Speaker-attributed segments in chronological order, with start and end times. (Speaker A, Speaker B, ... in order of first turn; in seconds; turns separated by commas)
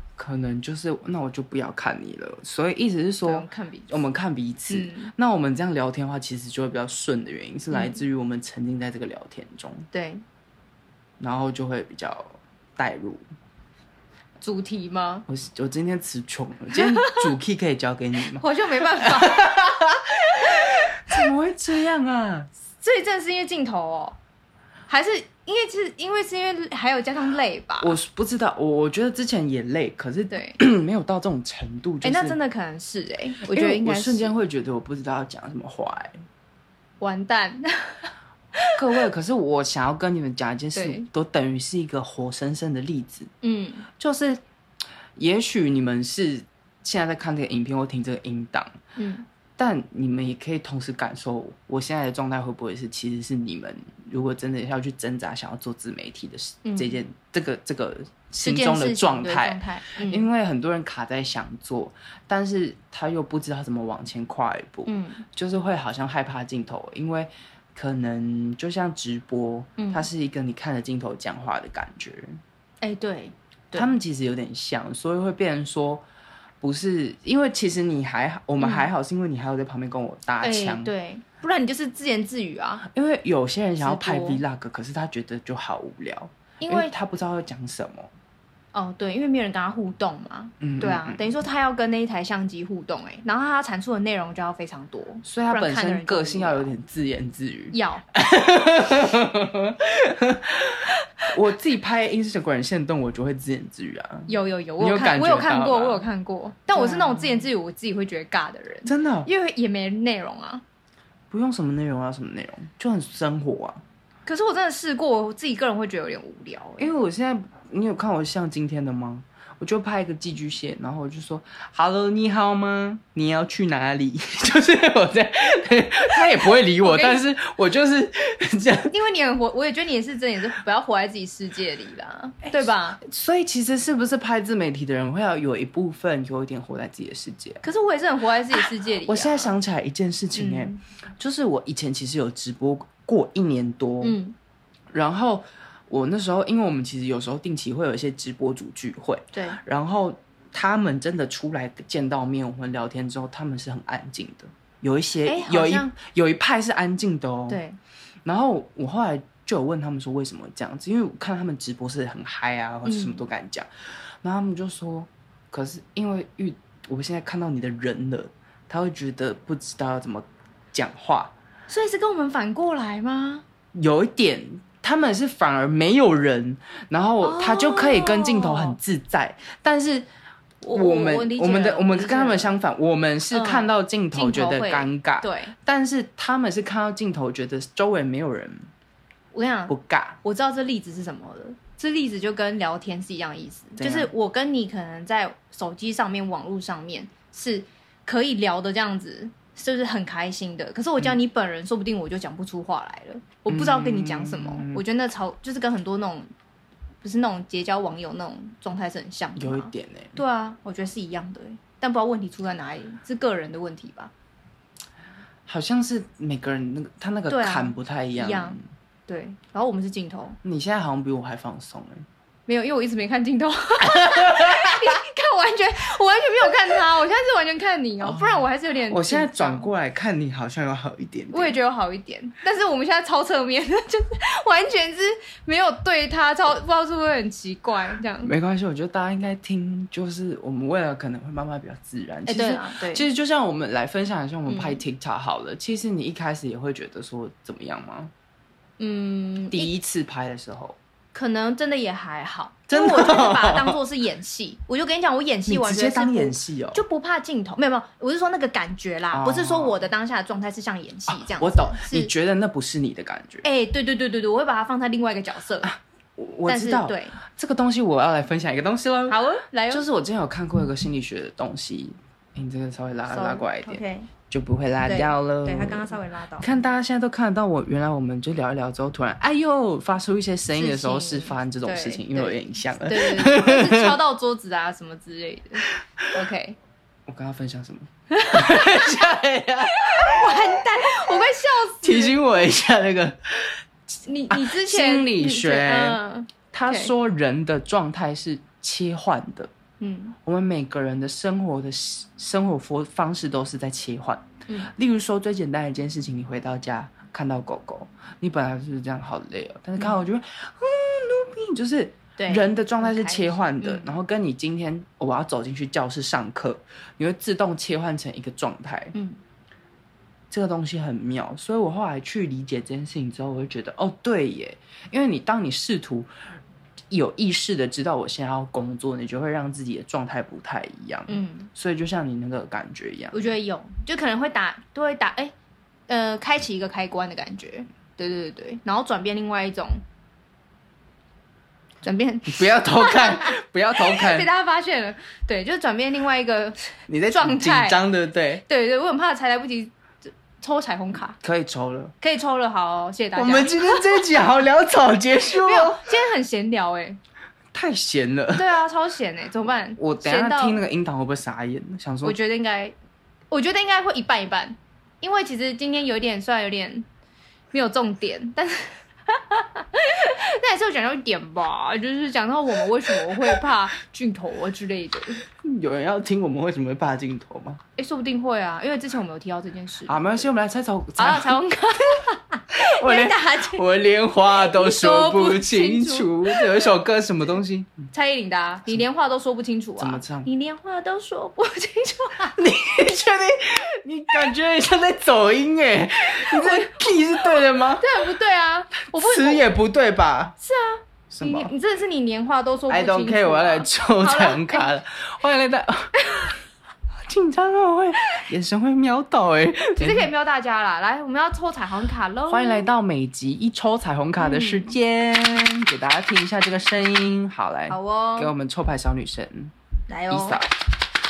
Speaker A: 0.1-9.9, Speaker B: 3.2-4.0, Speaker B: 4.7-5.1, Speaker B: 7.7-8.0, Speaker B: 9.9-10.2, Speaker A: 11.2-13.2, Speaker B: 14.4-15.2, Speaker A: 15.3-22.5, Speaker B: 16.7-17.3, Speaker B: 18.3-19.5, Speaker B: 20.3-21.2, Speaker B: 22.8-24.2, Speaker B: 24.9-28.0, Speaker A: 27.8-32.4, Speaker B: 30.3-30.6, Speaker B: 32.0-34.3, Speaker A: 33.4-36.2, Speaker B: 37.0-38.8, Speaker A: 38.7-43.3, Speaker B: 40.7-41.1, Speaker B: 43.4-43.9, Speaker A: 44.0-44.4, Speaker A: 45.1-48.7, Speaker B: 49.0-49.2, Speaker A: 49.6-72.4, Speaker B: 56.6-57.0, Speaker B: 58.4-60.3, Speaker B: 64.8-65.2, Speaker B: 69.8-70.1, Speaker B: 72.8-73.9, Speaker A: 73.7-76.0, Speaker A: 76.6-80.9, Speaker B: 78.6-78.9, Speaker B: 80.4-82.8, Speaker A: 82.8-88.1, Speaker B: 83.8-84.4, Speaker B: 86.6-86.9, Speaker B: 88.7-96.7, Speaker A: 90.6-91.2, Speaker A: 95.2-106.1, Speaker B: 97.7-98.0, Speaker B: 104.3-110.6, Speaker A: 106.7-107.5, Speaker A: 108.8-109.3, Speaker A: 111.3-113.8, Speaker B: 114.2-116.9, Speaker A: 116.8-128.9, Speaker B: 126.8-127.2, Speaker B: 128.9-133.0, Speaker A: 132.4-137.6, Speaker B: 137.6-139.5, Speaker A: 138.5-144.2, Speaker B: 140.3-140.8, Speaker B: 144.0-144.3, Speaker A: 144.9-157.6, Speaker B: 149.3-149.6, Speaker B: 155.2-155.9, Speaker B: 157.5-157.8, Speaker A: 158.2-163.7, Speaker B: 162.8-163.2, Speaker A: 164.2-171.3, Speaker B: 171.7-173.4, Speaker A: 173.7-180.1, Speaker B: 177.2-178.8, Speaker A: 180.6-188.7, Speaker B: 180.6-182.5, Speaker B: 183.3-185.5, Speaker B: 189.3-206.3, Speaker A: 189.7-190.2, Speaker A: 193.8-194.1, Speaker A: 203.5-204.8, Speaker B: 207.0-214.1, Speaker A: 209.4-210.2, Speaker A: 215.5-218.6, Speaker B: 217.3-220.4, Speaker A: 220.4-222.1, Speaker B: 222.5-229.7, Speaker A: 223.8-225.0, Speaker A: 228.0-231.6, Speaker B: 231.3-238.3, Speaker A: 238.2-248.1, Speaker B: 242.3-243.1, Speaker B: 244.5-244.8, Speaker B: 248.8-249.7, Speaker A: 249.5-250.8, Speaker B: 251.1-262.1, Speaker A: 252.7-253.8, Speaker A: 255.5-256.8, Speaker A: 259.1-259.9, Speaker A: 261.1-263.4, Speaker B: 263.4-265.7, Speaker A: 265.6-269.2, Speaker B: 266.4-267.2, Speaker B: 269.1-269.8, Speaker A: 269.7-284.0, Speaker B: 273.1-274.1, Speaker B: 274.8-276.5, Speaker B: 280.5-286.6, Speaker A: 287.1-291.0, Speaker B: 288.1-289.1, Speaker B: 289.6-292.2, Speaker A: 291.8-293.6, Speaker B: 294.1-296.9, Speaker A: 294.3-296.0, Speaker A: 296.5-299.5, Speaker B: 299.8-300.1, Speaker A: 300.2-318.9, Speaker B: 312.2-313.9, Speaker B: 318.9-319.2, Speaker A: 320.3-326.1, Speaker A: 326.9-333.2, Speaker B: 331.1-331.5, Speaker B: 333.1-335.3, Speaker B: 335.9-339.8, Speaker B: 341.8-347.8, Speaker A: 342.2-344.3, Speaker A: 346.9-348.4, Speaker B: 348.5-351.2, Speaker A: 351.2-351.9, Speaker B: 352.0-354.0, Speaker A: 353.1-355.9, Speaker B: 355.4-357.0, Speaker A: 357.5-358.5, Speaker B: 358.3-360.6, Speaker A: 359.8-362.2, Speaker B: 362.0-362.7, Speaker B: 363.3-366.9, Speaker B: 367.5-375.2, Speaker A: 372.9-373.4, Speaker A: 375.4-377.6, Speaker B: 377.8-380.3, Speaker A: 379.9-381.4, Speaker B: 381.0-383.6, Speaker A: 382.5-387.9, Speaker B: 384.3-386.5, Speaker B: 387.9-392.4, Speaker A: 389.8-390.3, Speaker A: 392.4-397.9, Speaker B: 396.1-399.5, Speaker A: 398.9-400.4, Speaker B: 400.4-404.7, Speaker A: 401.1-401.5, Speaker A: 402.7-405.9, Speaker B: 406.0-406.3, Speaker A: 407.0-410.1, Speaker B: 409.8-412.7, Speaker A: 412.3-419.5, Speaker B: 414.2-414.7, Speaker B: 417.7-418.3, Speaker B: 419.9-420.4, Speaker A: 420.1-420.5